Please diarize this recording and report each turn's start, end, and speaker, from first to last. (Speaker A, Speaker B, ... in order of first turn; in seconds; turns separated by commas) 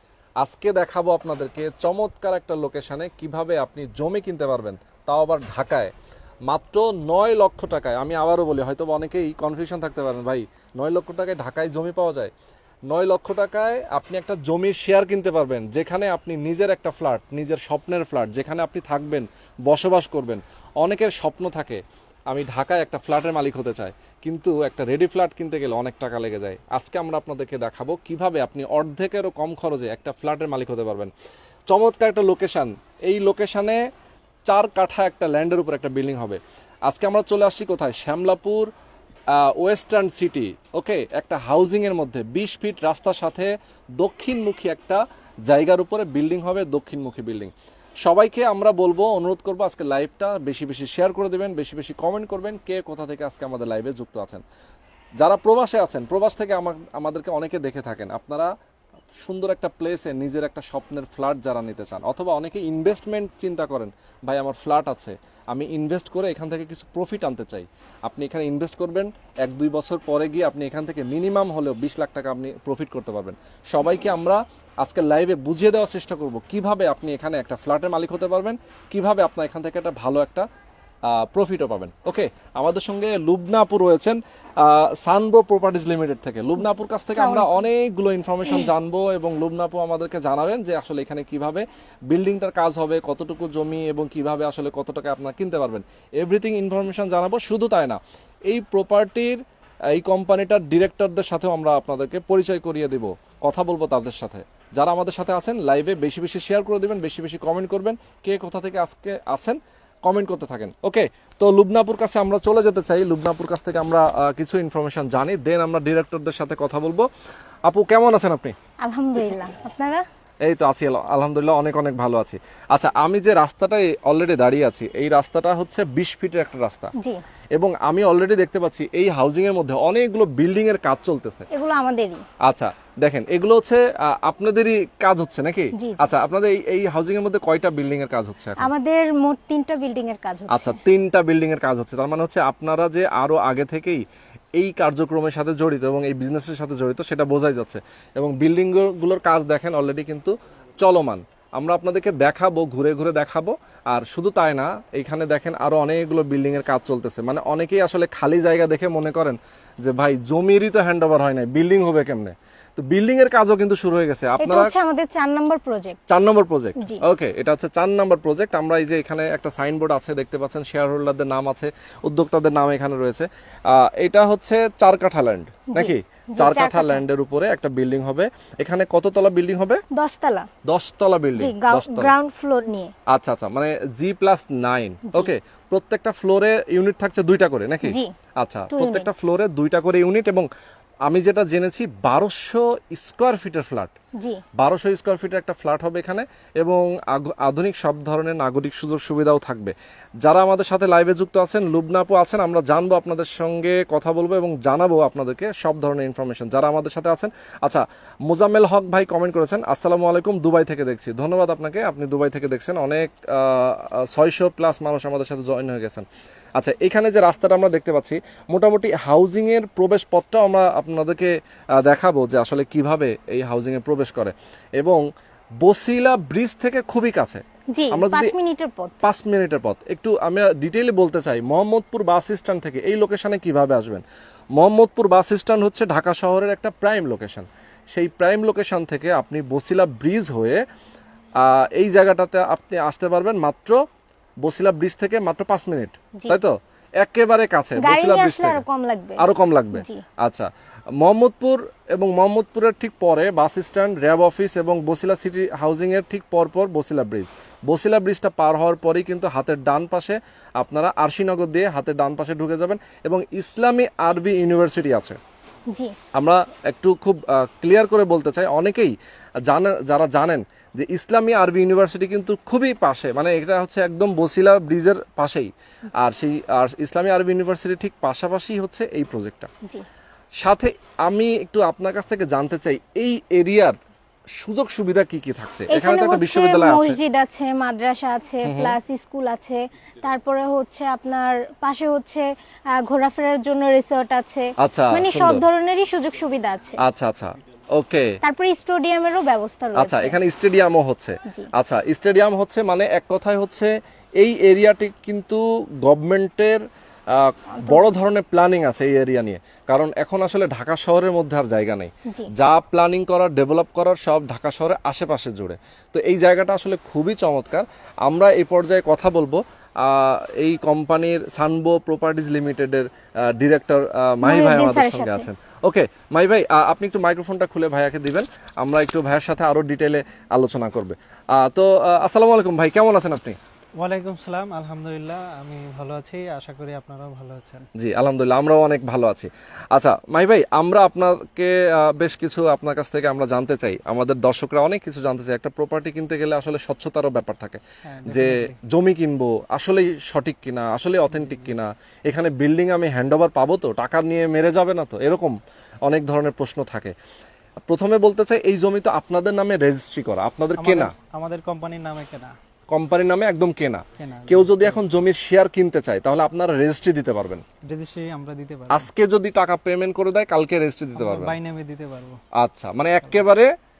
Speaker A: 0.4-5.9, Speaker A: 6.5-12.3, Speaker A: 12.9-31.1, Speaker A: 31.7-33.8, Speaker A: 34.5-38.7, Speaker A: 39.3-47.5, Speaker A: 48.0-54.4, Speaker A: 55.2-58.5, Speaker A: 59.2-80.5, Speaker A: 81.1-99.4, Speaker B: 87.1-87.6, Speaker A: 99.9-117.1, Speaker A: 117.7-118.5, Speaker B: 118.8-120.0, Speaker A: 120.4-126.9, Speaker A: 127.5-131.5, Speaker B: 131.5-132.2, Speaker A: 132.4-138.7, Speaker B: 135.8-136.1, Speaker B: 138.6-140.8, Speaker A: 140.5-144.0, Speaker A: 144.5-164.7, Speaker B: 164.4-166.0, Speaker A: 166.1-179.8, Speaker B: 166.8-167.0, Speaker B: 175.7-177.1, Speaker B: 179.9-180.5, Speaker A: 180.7-182.1, Speaker B: 181.4-182.9, Speaker A: 183.1-190.5, Speaker B: 185.1-185.3, Speaker B: 187.8-188.1, Speaker B: 188.7-189.1, Speaker A: 191.1-193.9, Speaker A: 194.6-216.1, Speaker A: 216.6-225.0, Speaker A: 225.6-228.3, Speaker B: 227.7-229.0, Speaker A: 229.0-234.0, Speaker A: 234.6-240.6, Speaker A: 241.4-243.8, Speaker A: 244.4-248.6, Speaker B: 247.8-250.0, Speaker A: 249.2-250.5, Speaker A: 251.0-265.2, Speaker B: 265.7-265.9, Speaker A: 266.1-279.5, Speaker A: 280.4-283.8, Speaker A: 284.4-287.0, Speaker B: 285.7-296.8, Speaker A: 288.4-288.8, Speaker A: 294.6-295.4, Speaker A: 296.8-298.1, Speaker B: 298.2-300.2, Speaker A: 299.7-333.4, Speaker B: 324.2-325.3, Speaker C: 333.8-337.6, Speaker A: 337.8-356.9, Speaker C: 347.9-348.6, Speaker C: 351.1-351.5, Speaker A: 357.7-360.9, Speaker C: 360.6-362.3, Speaker A: 362.7-367.4, Speaker C: 364.0-364.8, Speaker C: 367.7-368.9, Speaker A: 368.7-371.4, Speaker C: 370.9-372.2, Speaker A: 372.4-373.5